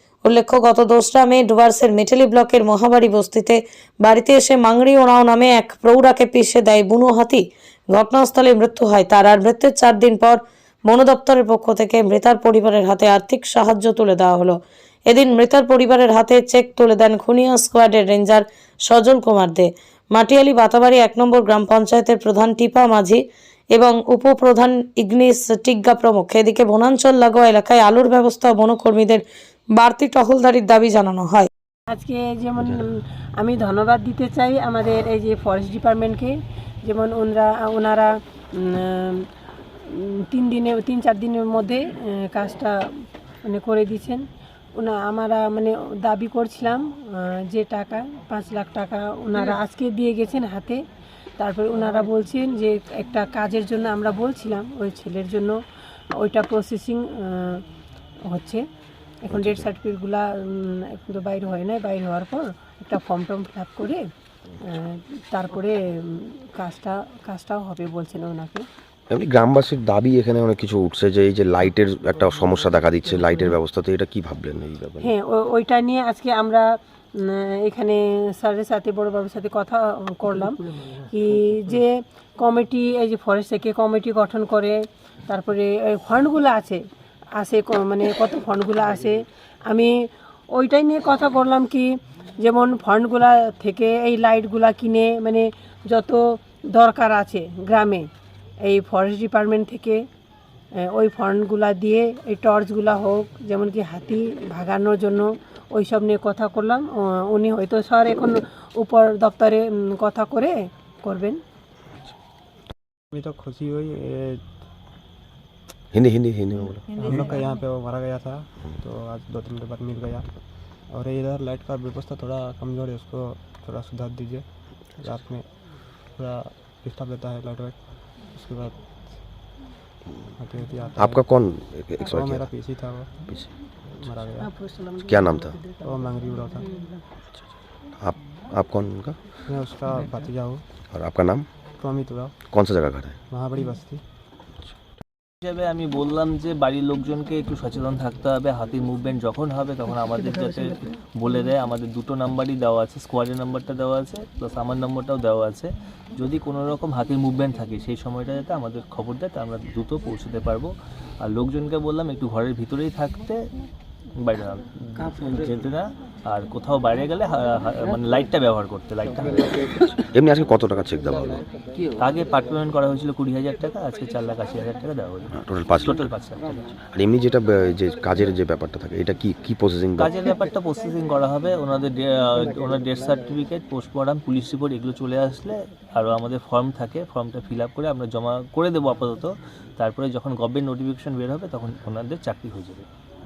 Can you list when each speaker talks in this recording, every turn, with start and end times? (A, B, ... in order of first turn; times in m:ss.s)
0:00.2-0:14.6 A
0:15.1-0:23.2 A
0:23.7-0:29.2 A
0:29.8-0:31.5 A
0:31.9-0:32.7 B
0:32.6-0:32.8 C
0:33.4-0:36.3 B
0:36.9-0:39.3 B
0:39.8-0:42.8 B
0:43.5-0:44.2 B
0:44.8-0:50.8 B
0:51.4-0:55.6 B
0:56.2-0:57.6 B
0:58.3-0:58.6 B
0:59.3-1:04.0 B
0:59.3-0:59.7 C
1:04.6-1:08.7 B
1:09.1-1:15.1 C
1:15.2-1:16.6 B
1:17.2-1:26.8 B
1:27.4-1:29.9 B
1:30.5-1:31.9 B
1:32.4-1:36.2 B
1:36.7-1:38.1 B
1:38.6-1:40.0 B
1:40.9-1:51.4 B
1:53.1-1:54.4 D
1:55.9-1:57.0 C
1:56.9-2:00.3 D
2:00.9-2:05.5 D
2:06.1-2:08.8 D
2:10.4-2:11.2 D
2:11.0-2:12.5 C
2:12.1-2:13.1 D
2:13.9-2:14.5 D
2:15.0-2:15.6 C
2:15.8-2:16.7 D
2:18.0-2:19.2 C
2:19.5-2:20.6 D
2:20.9-2:21.5 C
2:21.8-2:22.4 D
2:22.5-2:23.2 C
2:23.3-2:24.0 D
2:25.4-2:43.4 E
2:44.2-2:49.8 E
2:50.0-2:51.5 C
2:52.0-2:56.7 E
2:55.3-2:56.1 C
2:56.9-3:00.1 C
3:00.0-3:12.8 E